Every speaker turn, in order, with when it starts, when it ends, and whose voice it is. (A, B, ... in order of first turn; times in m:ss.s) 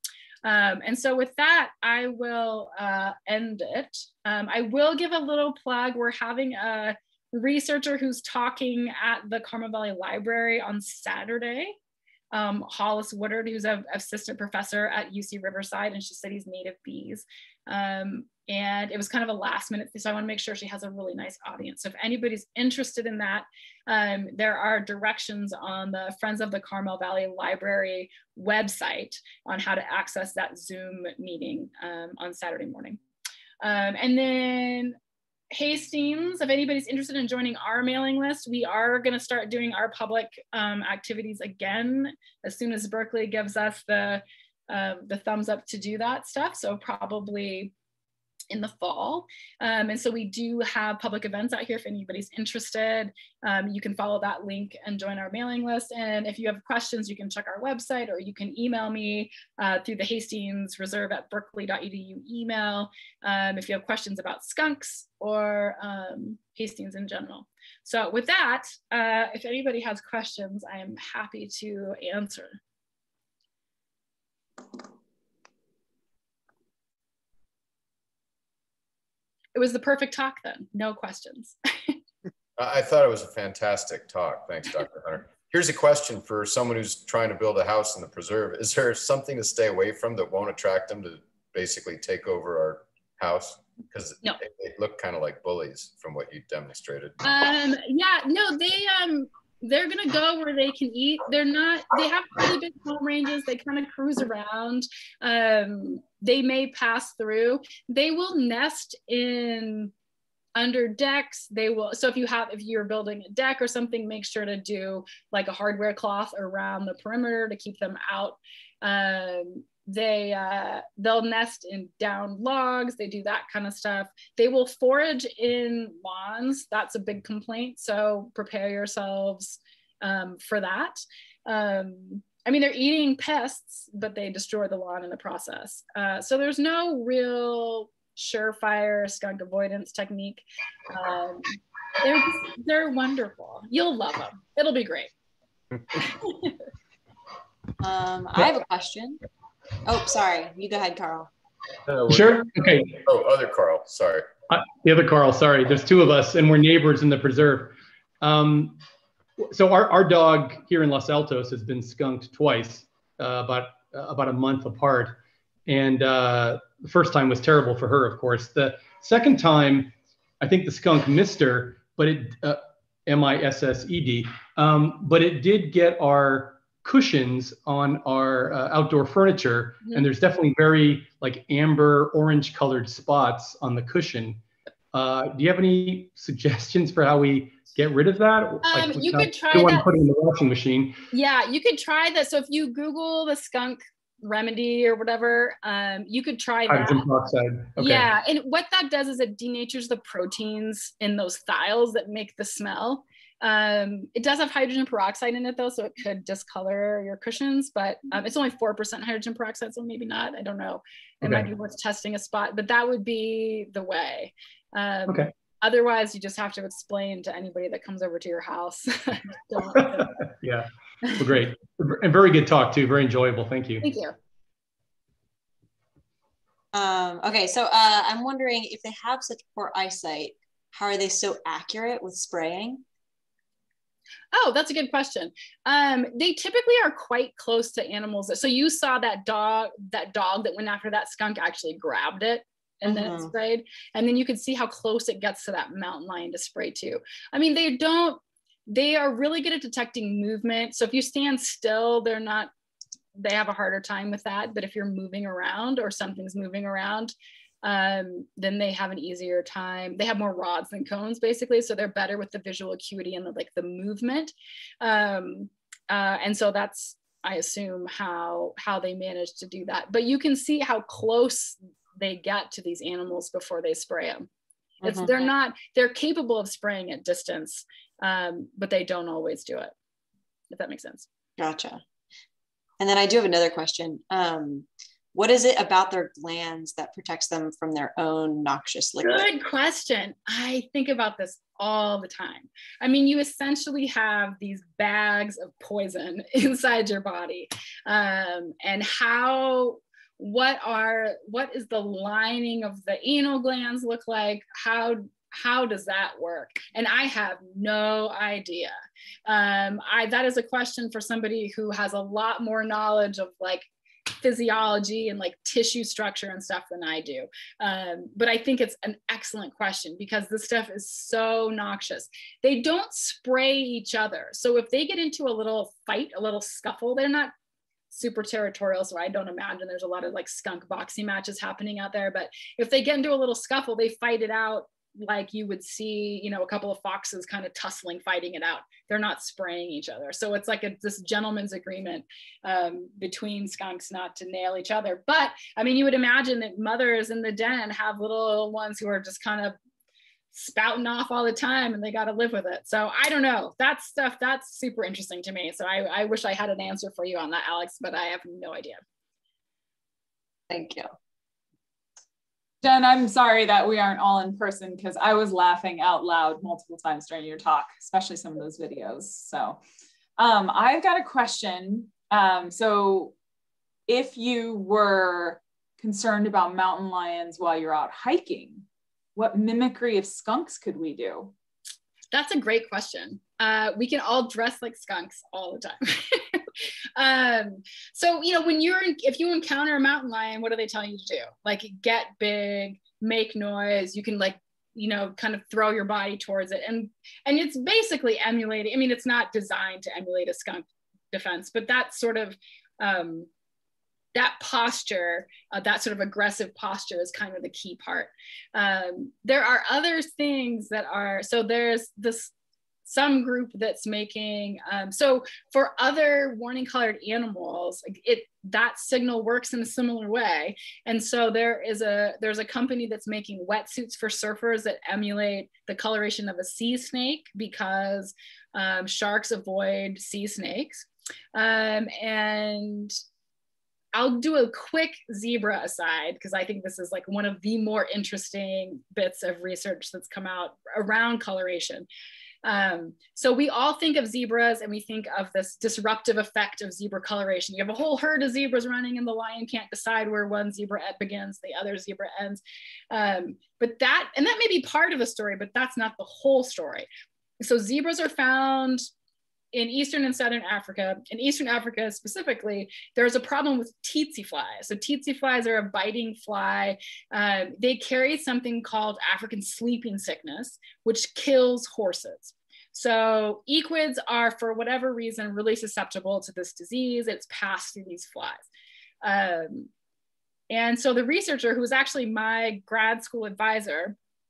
0:00.4-0:11.8 A
0:12.3-0:33.0 A
0:33.6-0:35.0 A
0:35.5-0:47.7 A
0:48.5-1:12.6 A
1:19.5-1:21.9 A
1:22.6-1:37.2 B
1:37.2-1:49.9 A
1:50.6-2:25.1 A
2:26.0-2:26.5 A
2:27.8-2:29.2 C
2:29.8-2:31.3 C
2:31.9-2:34.3 B
2:32.1-2:33.0 D
2:34.5-2:38.8 D
2:39.4-3:04.4 D
3:04.9-3:11.0 D
3:08.6-3:09.8 A
3:11.1-3:17.0 A
3:16.7-3:18.1 D
3:17.8-3:40.2 A
3:39.9-3:43.9 D
3:43.8-3:44.1 A
3:46.7-3:52.8 C
3:54.3-4:12.5 A
4:02.8-4:03.3 C
4:13.1-4:34.3 A
4:34.8-4:35.1 C
4:34.8-4:39.7 A
4:40.5-4:41.1 A
4:41.4-4:41.8 C
4:42.8-4:49.2 C
4:49.0-5:08.7 A
5:09.2-5:27.3 A
5:27.9-5:49.5 A
5:50.3-5:58.8 A
6:00.5-6:00.9 C
6:02.6-6:09.6 E
6:10.2-6:13.1 E
6:13.9-6:21.3 E
6:22.1-6:26.4 A
6:27.0-6:43.3 A
6:44.1-6:52.3 A
6:52.8-7:13.0 A
7:13.9-7:21.9 A
7:22.4-7:36.9 A
7:37.4-7:38.8 A
7:39.5-7:58.4 A
7:59.0-7:59.7 A
8:00.5-8:03.9 A